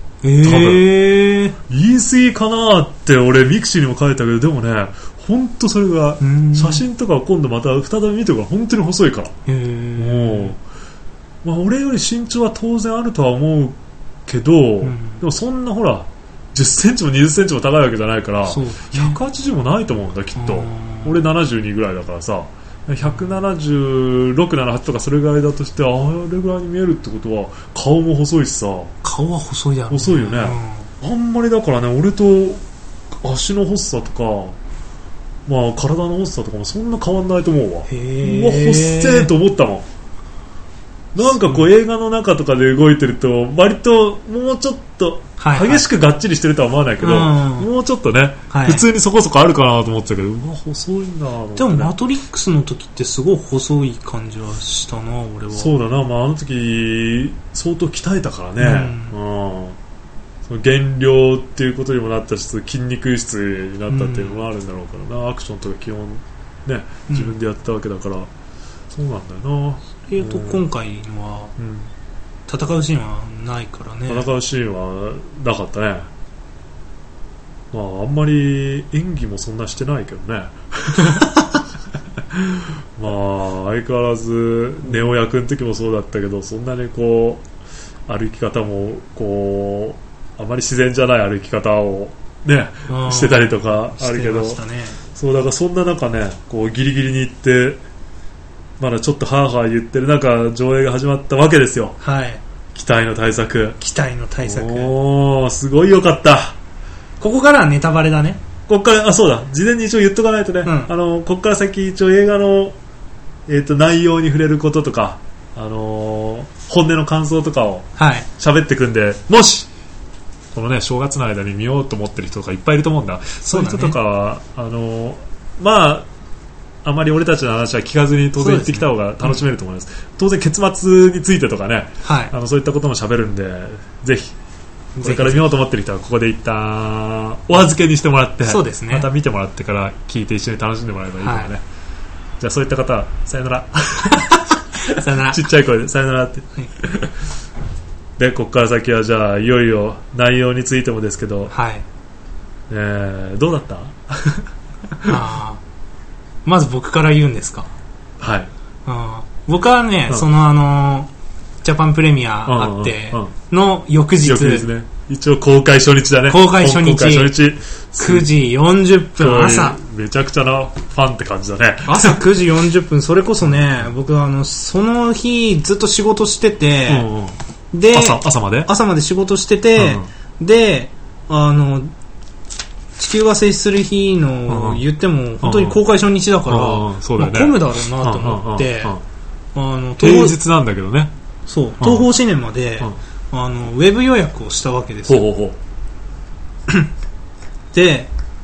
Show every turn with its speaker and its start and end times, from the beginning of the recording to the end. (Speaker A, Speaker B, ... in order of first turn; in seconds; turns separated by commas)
Speaker A: 0.2-1.6, Speaker B: 0.4-0.9, Speaker B: 1.7-9.3, Speaker A: 6.2-6.8, Speaker A: 9.4-10.5, Speaker B: 10.0-10.6, Speaker B: 11.4-28.9, Speaker A: 14.8-15.2, Speaker A: 18.4-19.2, Speaker A: 20.4-21.2, Speaker A: 23.0-23.3, Speaker A: 29.0-30.9, Speaker B: 29.9-32.6, Speaker B: 33.2-34.5, Speaker B: 35.5-39.9, Speaker A: 37.9-39.3, Speaker B: 41.1-51.9, Speaker A: 41.2-41.7, Speaker A: 45.4-45.8, Speaker A: 47.0-47.7, Speaker A: 48.5-48.8, Speaker A: 51.5-55.7, Speaker B: 55.5-59.8, Speaker A: 58.6-59.1, Speaker B: 60.4-68.3, Speaker A: 63.9-64.4, Speaker A: 67.1-67.3, Speaker B: 68.9-70.6, Speaker A: 70.0-71.5, Speaker B: 71.6-71.9, Speaker A: 72.5-74.3, Speaker B: 74.1-76.1, Speaker B: 77.7-81.3, Speaker B: 82.3-87.4, Speaker B: 88.1-94.6, Speaker A: 92.9-95.0, Speaker B: 95.1-97.8, Speaker B: 98.8-102.0, Speaker A: 102.0-102.4, Speaker B: 102.7-103.8, Speaker A: 103.8-104.9, Speaker B: 104.4-106.5, Speaker A: 107.2-108.4, Speaker B: 108.7-112.8, Speaker A: 110.6-110.9, Speaker B: 113.5-119.7, Speaker A: 118.0-118.3, Speaker B: 120.5-126.1, Speaker A: 123.4-124.0, Speaker B: 126.8-134.3, Speaker A: 128.4-129.4, Speaker A: 132.0-132.3, Speaker A: 134.9-135.4, Speaker B: 135.0-141.6, Speaker A: 138.4-139.1, Speaker A: 141.2-141.5, Speaker B: 142.4-147.1, Speaker A: 144.1-145.4, Speaker B: 148.2-151.5, Speaker A: 151.5-151.8, Speaker B: 152.7-154.4, Speaker A: 155.0-155.6, Speaker A: 156.4-157.7, Speaker B: 158.2-158.5, Speaker A: 158.8-161.1, Speaker A: 161.6-164.7, Speaker B: 162.4-163.3, Speaker B: 164.2-168.3, Speaker A: 166.3-167.3, Speaker A: 168.0-169.8, Speaker B: 169.2-172.2, Speaker A: 171.8-177.1, Speaker B: 173.4-173.9, Speaker B: 176.9-177.4, Speaker A: 177.7-181.9, Speaker B: 177.9-178.7, Speaker B: 179.8-180.1, Speaker A: 183.0-189.0, Speaker B: 184.5-184.8, Speaker B: 185.4-185.8, Speaker B: 186.5-189.0, Speaker A: 189.5-190.4, Speaker B: 190.0-191.1, Speaker A: 191.5-195.2, Speaker B: 191.8-192.1, Speaker B: 195.1-195.6, Speaker A: 197.7-198.1